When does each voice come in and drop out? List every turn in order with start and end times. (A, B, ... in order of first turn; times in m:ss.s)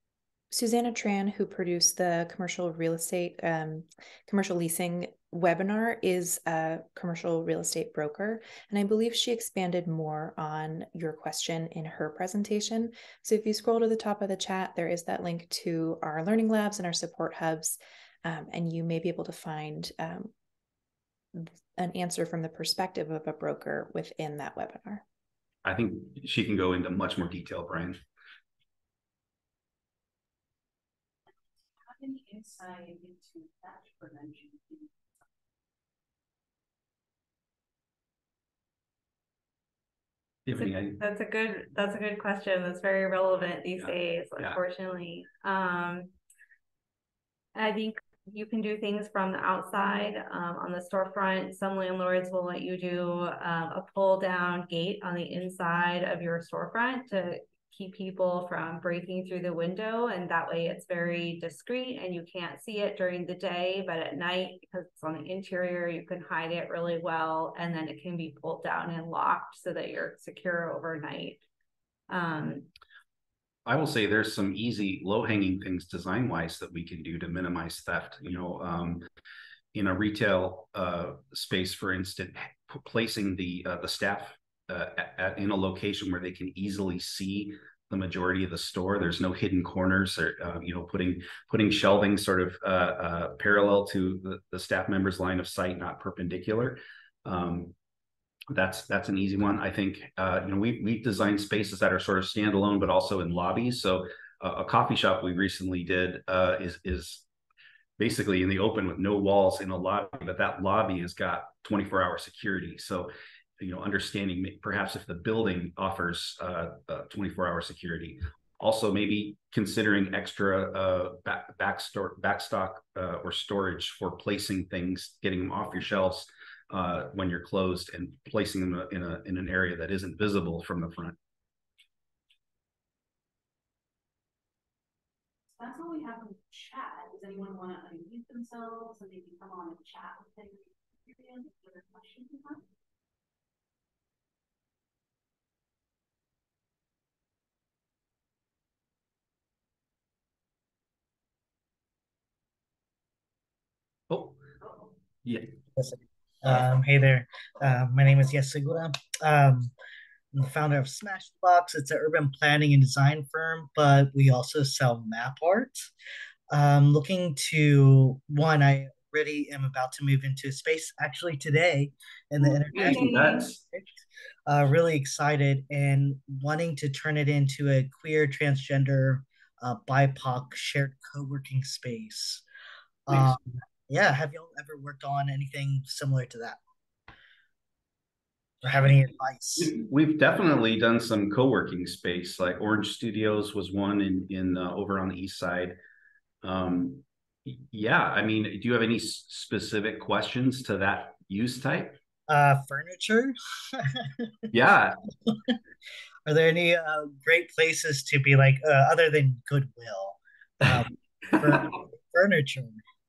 0:00.5-0:20.3 A
0:21.3-0:25.0 A
0:25.6-0:28.0 B
0:31.7-0:35.0 C
0:40.4-0:41.0 B
0:40.6-0:46.1 D
0:43.8-0:44.6 B
0:47.5-1:11.4 D
1:12.1-1:12.7 D
1:13.6-1:19.0 B
1:19.7-1:37.7 B
1:38.5-1:47.2 B
1:48.0-2:11.2 B
2:15.5-2:22.6 C
2:34.1-2:34.4 B
2:35.2-2:35.5 B
2:35.8-2:39.7 E
2:40.3-2:45.8 E
2:46.5-2:53.1 E
2:52.4-2:53.5 D
2:52.7-2:53.6 B
2:54.5-3:02.4 E
3:03.1-3:06.6 E
3:08.6-3:09.7 E
3:09.6-3:15.8 B
3:16.4-3:22.0 B
3:22.3-3:24.2 E
3:24.5-3:25.0 B
3:26.2-3:32.8 E